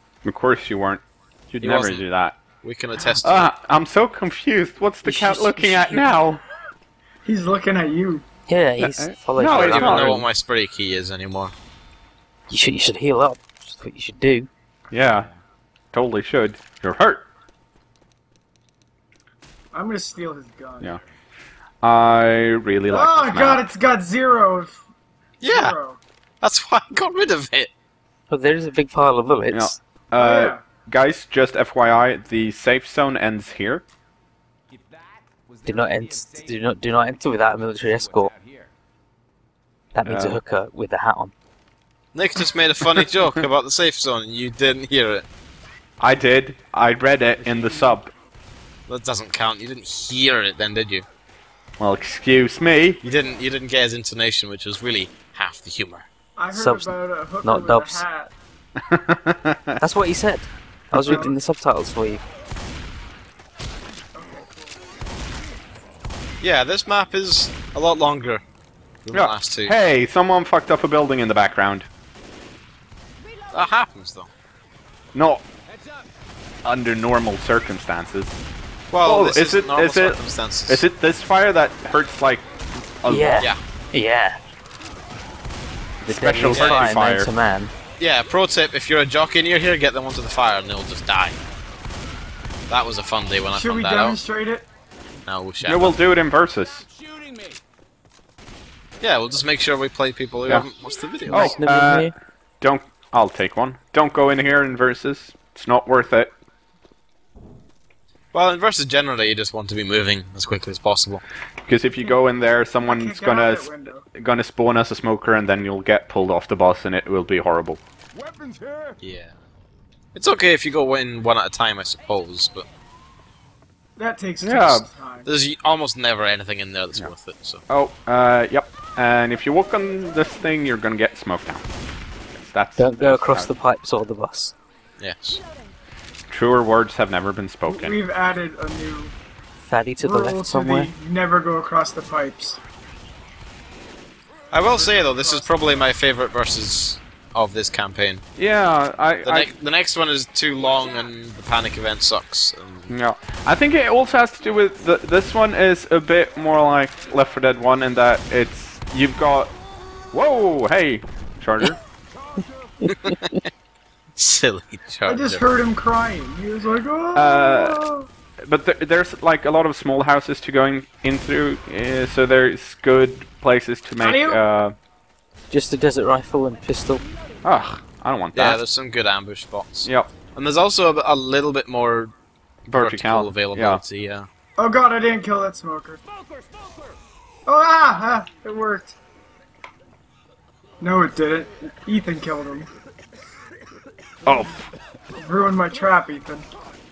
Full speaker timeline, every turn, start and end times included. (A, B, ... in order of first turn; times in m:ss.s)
0:00.2-0:02.4 A
0:01.6-0:02.0 B
0:02.6-0:03.5 B
0:03.2-0:06.4 A
0:05.0-0:06.1 C
0:07.2-0:08.2 D
0:08.5-0:10.1 C
0:08.8-0:10.3 A
0:09.5-0:11.5 B
0:12.5-0:14.5 C
0:14.9-0:15.3 A
0:15.9-0:17.3 A
0:19.7-0:21.0 D
0:21.8-0:23.7 A
0:22.9-0:24.8 D
0:25.4-0:25.8 B
0:25.5-0:26.0 D
0:26.4-0:27.7 B
0:28.3-0:29.8 C
0:29.5-0:33.8 A
0:30.1-0:30.6 D
0:35.6-0:38.3 C
0:39.9-0:41.3 C
0:40.0-0:40.4 A
0:42.1-0:45.3 B
0:46.0-0:48.1 A
0:48.9-0:51.1 B
0:51.8-0:53.0 A
0:53.0-0:56.1 B
0:56.4-0:58.3 D
0:56.5-0:58.0 C
0:58.9-0:59.8 A
0:59.8-1:02.2 C
1:00.9-1:01.3 A
1:01.1-1:01.3 D
1:04.2-1:04.7 D
1:06.4-1:08.4 B
1:09.0-1:09.8 B
1:09.1-1:11.9 A
1:13.5-1:14.3 B
1:15.1-1:15.4 A
1:16.6-1:18.4 A
1:18.9-1:20.9 B
1:19.0-1:22.4 A
1:23.0-1:23.5 A
1:23.1-1:24.4 C
1:26.0-1:27.7 C
1:26.1-1:27.3 A
1:26.5-1:26.9 B
1:28.0-1:31.4 B
1:32.7-1:34.2 B
1:33.5-1:34.7 D
1:35.3-1:36.0 B
1:35.6-1:36.9 A
1:39.0-1:41.6 B
1:41.2-1:42.2 C
1:41.3-1:46.3 A
1:48.3-1:51.2 B
1:51.6-1:57.8 A
1:52.8-1:54.1 D
1:59.0-1:59.4 B
2:00.2-2:02.7 B
2:04.0-2:05.3 D
2:04.4-2:04.9 A
2:05.2-2:07.6 B
2:07.7-2:11.6 A
2:12.4-2:13.5 A
2:12.8-2:14.6 C
2:15.0-2:15.4 B
2:16.3-2:18.0 A
2:17.7-2:19.1 D
2:19.6-2:20.9 C
2:20.0-2:22.6 D
2:24.5-2:28.2 B
2:24.6-2:25.8 D
2:28.4-2:29.5 A
2:29.2-2:32.9 B
2:32.9-2:39.5 A
2:40.1-2:41.8 A
2:42.8-2:43.4 C
2:42.9-2:43.2 B
2:44.2-2:45.4 B
2:45.1-2:48.1 D
2:47.2-2:47.8 A
2:48.4-2:54.8 A
2:54.0-2:54.4 D
2:55.5-2:57.0 C
2:57.4-2:58.6 A
2:58.3-3:02.1 B
2:59.8-3:00.1 A
3:02.7-3:04.3 B
3:02.7-3:03.8 A
3:04.6-3:06.0 D
3:07.5-3:09.0 D
3:10.8-3:12.7 D
3:14.2-3:14.7 A
3:15.2-3:16.5 D